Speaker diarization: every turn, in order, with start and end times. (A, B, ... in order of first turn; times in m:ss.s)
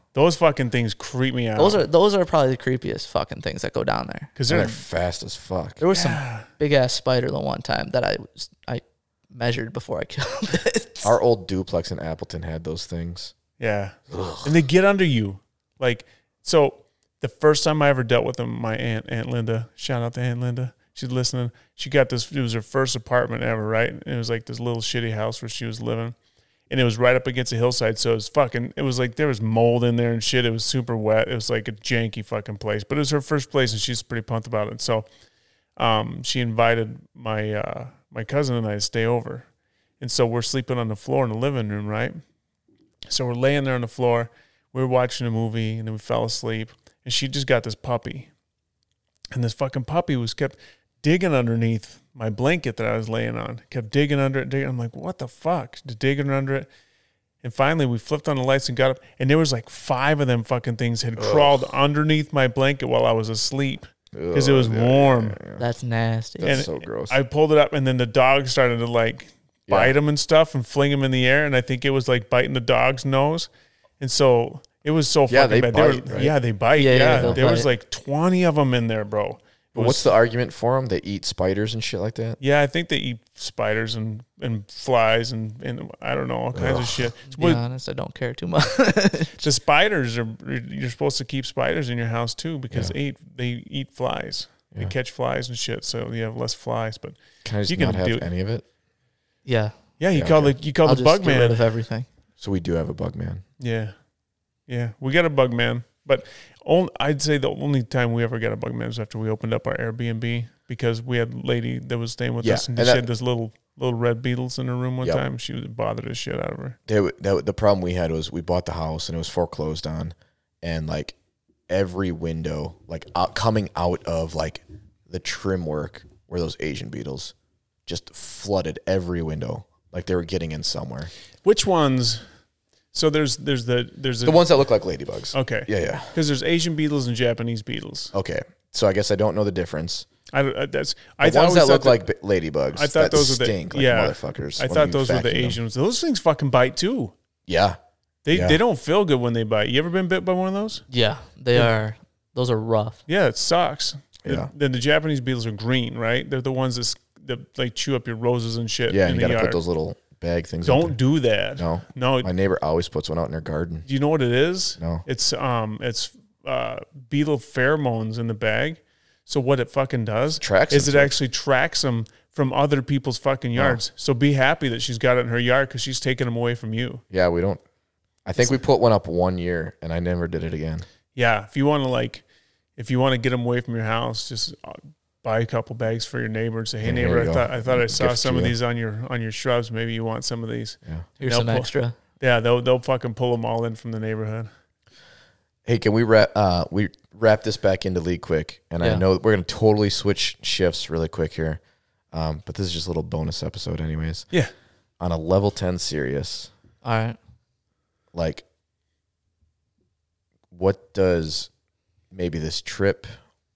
0:00.1-0:01.8 A
0:01.6-0:04.3 B
0:04.3-0:04.8 A
0:04.5-0:05.8 C
0:05.8-0:11.1 B
0:05.9-0:06.5 A
0:11.0-0:13.3 C
0:13.6-0:26.1 A
0:14.1-0:14.5 C
0:26.7-0:35.1 A
0:35.8-0:39.4 A
0:40.0-0:42.2 A
0:43.1-0:48.3 A
0:49.3-0:56.7 A
0:57.4-1:05.4 A
1:01.2-1:01.6 C
1:04.1-1:05.6 C
1:05.6-1:06.6 B
1:06.4-1:07.2 C
1:06.4-1:13.5 A
1:09.7-1:09.9 C
1:14.0-1:20.1 A
1:15.3-1:16.3 C
1:16.8-1:17.7 B
1:17.0-1:17.4 C
1:19.7-1:22.4 C
1:22.4-1:27.6 A
1:26.5-1:27.1 C
1:27.3-1:29.5 B
1:29.4-1:38.3 A
1:37.4-1:38.6 C
1:39.4-1:39.8 B
1:40.0-1:41.6 A
1:40.1-1:40.6 C
1:40.8-1:42.1 B
1:42.4-1:43.4 C
1:43.6-1:43.9 A
1:44.7-1:56.8 A
1:52.4-1:53.0 C
1:56.9-2:01.2 C
2:01.7-2:07.3 C
2:07.8-2:11.1 C
2:11.4-2:12.2 A
2:12.9-2:14.4 A
2:14.2-2:16.1 C
2:15.3-2:18.1 A
2:18.1-2:20.0 C
2:20.3-2:22.0 A
2:21.2-2:25.6 C
2:22.7-2:27.1 A
2:27.5-2:27.8 C
2:28.2-2:30.8 A
2:28.3-2:28.6 C
2:30.9-2:33.0 B
2:33.1-2:39.6 A
2:34.2-2:34.5 C
2:38.9-2:41.0 C
2:40.6-2:42.3 A
2:41.6-2:43.9 C
2:43.8-2:57.0 A
2:44.8-2:45.0 C
2:50.4-2:51.1 C
2:57.1-2:57.6 C
2:58.2-3:00.8 C
3:01.1-3:02.2 A
3:02.8-3:14.5 A
3:06.8-3:08.5 C
3:11.2-3:11.9 B
3:15.6-3:21.6 C
3:22.1-3:24.3 C
3:25.0-3:26.5 C
3:26.8-3:27.2 B
3:28.1-3:28.4 C
3:30.5-3:31.5 C
3:32.1-3:33.1 C